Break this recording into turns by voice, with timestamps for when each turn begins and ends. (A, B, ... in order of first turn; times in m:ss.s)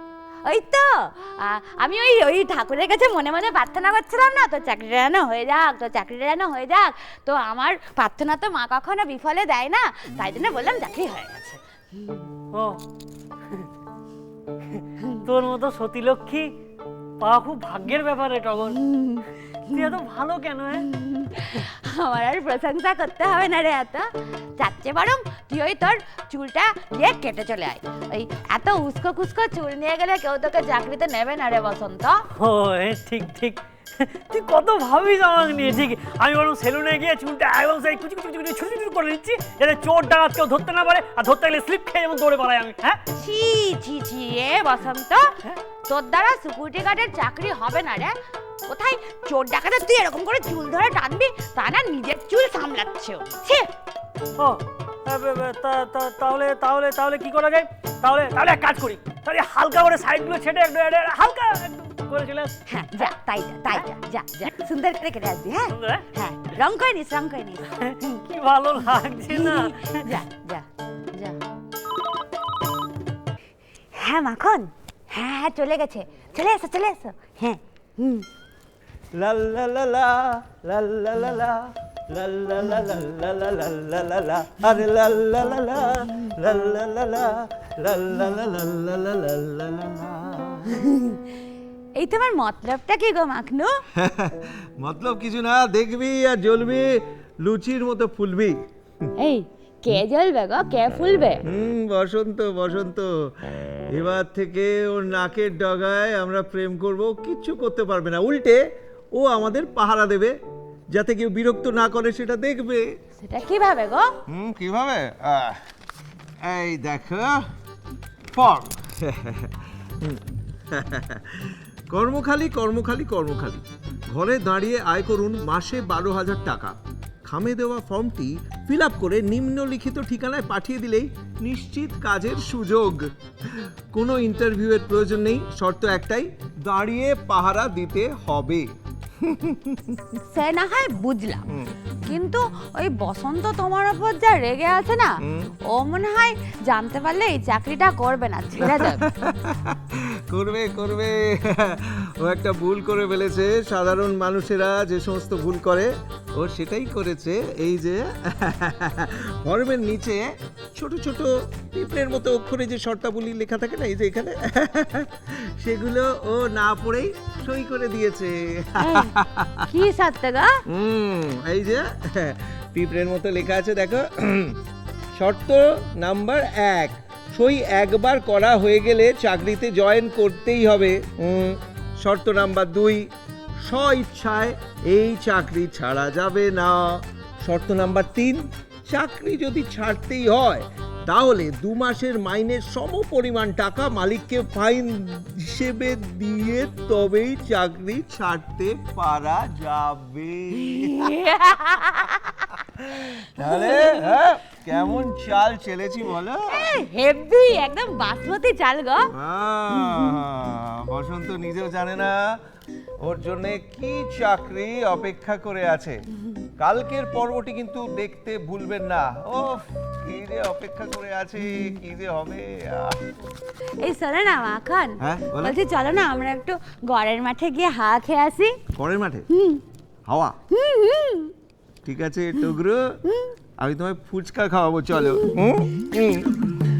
0:00.4-0:12.3 A
0:12.5-0:12.8 B
0:14.7-0:16.5 B
0:17.2-0:18.8 B
0:18.8-0:19.9 A
0:19.7-0:20.9 B
0:20.8-0:32.2 A
0:32.4-0:43.0 B
0:43.2-0:45.4 A
0:45.9-0:48.2 A
0:48.7-0:53.7 A
0:54.4-1:02.5 B
1:02.7-1:07.8 A
1:05.7-1:06.1 B
1:07.7-1:10.1 B
1:09.3-1:11.4 A
1:13.9-1:18.3 A
1:19.1-1:30.8 C
1:30.8-1:31.2 A
1:32.0-1:33.8 A
1:34.0-1:39.1 C
1:39.2-1:41.4 A
1:41.4-1:48.6 C
1:49.1-1:50.4 C
1:50.9-1:52.9 C
1:53.2-1:54.1 A
1:54.3-1:55.6 C
1:56.4-1:57.5 C
1:58.3-2:18.7 C
2:19.2-2:20.2 C
2:20.3-2:21.4 A
2:21.5-2:21.7 C
2:22.1-2:29.0 A
2:25.2-2:25.5 C
2:28.6-2:40.2 C
2:40.8-2:49.7 C
2:48.8-2:49.1 A
2:49.7-2:50.6 A
2:50.7-2:54.6 C
2:55.1-3:03.1 C
3:03.6-3:21.2 C
3:20.7-3:22.5 A
3:22.7-3:26.7 C
3:23.4-3:24.2 A
3:26.5-3:29.1 A
3:29.1-3:32.2 C
3:33.0-3:36.0 C
3:36.6-3:43.0 C
3:43.8-3:48.6 A
3:45.0-3:45.6 C
3:48.8-3:49.3 C
3:49.3-3:49.6 A
3:50.1-3:50.4 C
3:50.5-3:51.3 A
3:51.8-3:53.0 C
3:53.1-3:53.3 A
3:53.6-3:56.4 C